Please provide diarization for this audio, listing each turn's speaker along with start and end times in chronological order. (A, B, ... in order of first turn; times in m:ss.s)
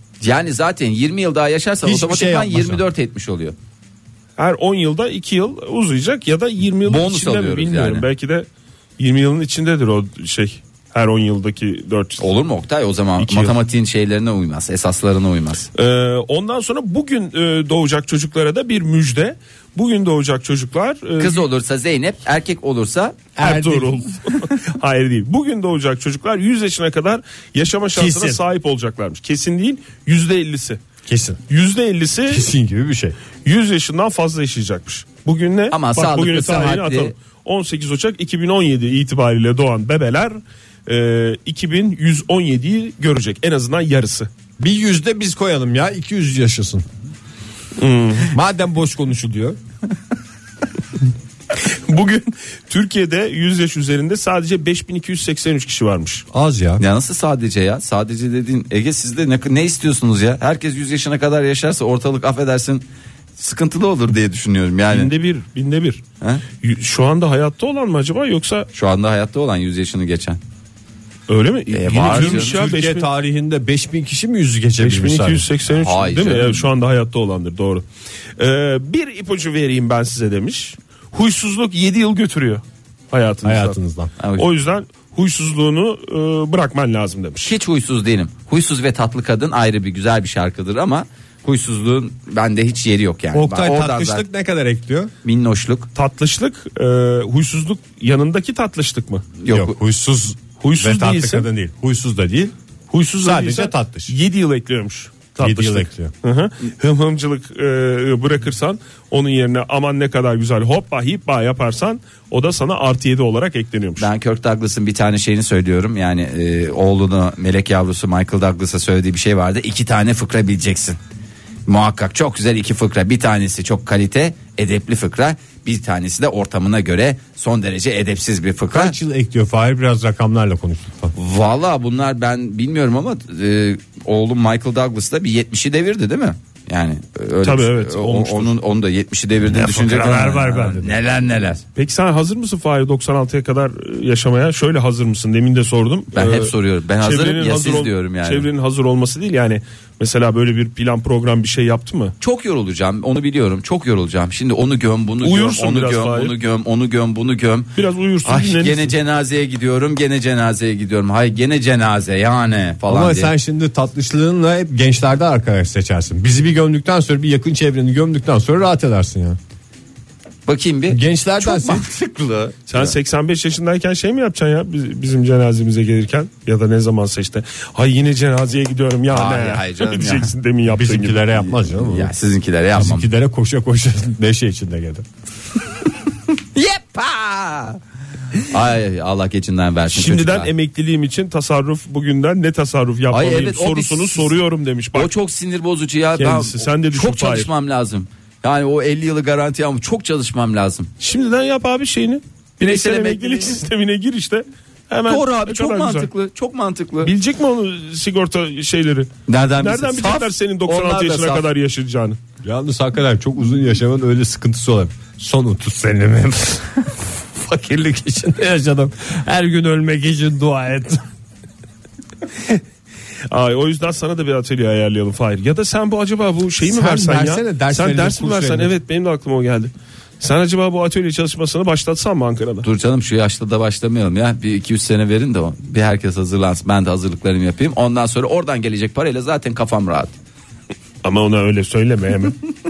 0:00.2-0:03.5 A
0:01.8-0:02.8 B
0:04.4-0:08.5 C
0:06.8-0:08.1 A
0:09.0-0:12.2 C
0:12.2-0:15.7 A
0:13.2-0:13.6 C
0:15.7-0:21.4 C
0:21.2-0:23.3 A
0:23.4-0:24.1 B
0:23.4-0:30.8 C
0:27.9-0:28.4 B
0:31.1-0:31.4 B
0:31.5-0:32.5 C
0:32.3-0:33.2 B
0:33.4-0:44.3 C
0:35.7-0:37.1 A
0:44.6-0:46.8 B
0:47.8-0:48.3 C
0:48.3-0:49.6 B
0:51.5-0:56.2 C
0:56.3-0:56.8 B
0:56.8-1:02.8 A
1:03.4-1:05.1 A
1:04.9-1:06.0 C
1:06.6-1:08.7 C
1:08.7-1:10.4 A
1:11.3-1:13.1 C
1:11.7-1:12.6 A
1:12.0-1:15.4 B
1:14.8-1:17.8 C
1:15.7-1:16.7 A
1:18.4-1:23.8 C
1:23.4-1:24.1 B
1:24.2-1:24.5 A
1:24.4-1:27.5 C
1:27.4-1:34.2 A
1:33.3-1:35.1 B
1:35.2-1:35.9 A
1:35.9-1:39.3 C
1:39.4-1:39.8 A
1:39.5-1:42.5 B
1:40.6-1:41.5 C
1:42.9-1:54.1 C
1:43.2-1:44.1 B
1:45.4-1:46.1 B
1:54.0-2:01.0 A
2:01.7-2:09.0 A
2:08.7-2:11.1 B
2:11.1-2:21.6 A
2:17.4-2:18.5 C
2:19.5-2:21.0 B
2:19.7-2:20.8 C
2:21.7-2:32.1 C
2:26.1-2:28.5 A
2:32.2-2:37.7 A
2:35.2-2:36.3 C
2:37.7-2:38.9 C
2:38.2-2:43.3 A
2:42.9-2:49.4 B
2:50.4-2:52.9 A
2:50.9-2:51.9 B
2:52.7-3:01.2 C
2:59.1-3:00.3 A
3:00.7-3:02.1 B
3:01.6-3:03.1 A
3:02.7-3:05.0 B
3:06.3-3:07.8 A
3:08.4-3:10.5 A
3:09.9-3:15.1 C
3:13.1-3:14.3 A
3:14.9-3:20.9 A
3:16.2-3:17.5 C
3:21.0-3:26.1 C
3:22.6-3:23.6 A
3:25.1-3:27.1 A
3:27.0-3:32.2 C
3:29.3-3:31.5 A
3:32.4-3:41.0 B
3:43.3-3:52.7 C
3:46.6-3:48.7 B
3:52.6-4:00.1 A
4:01.0-4:02.4 C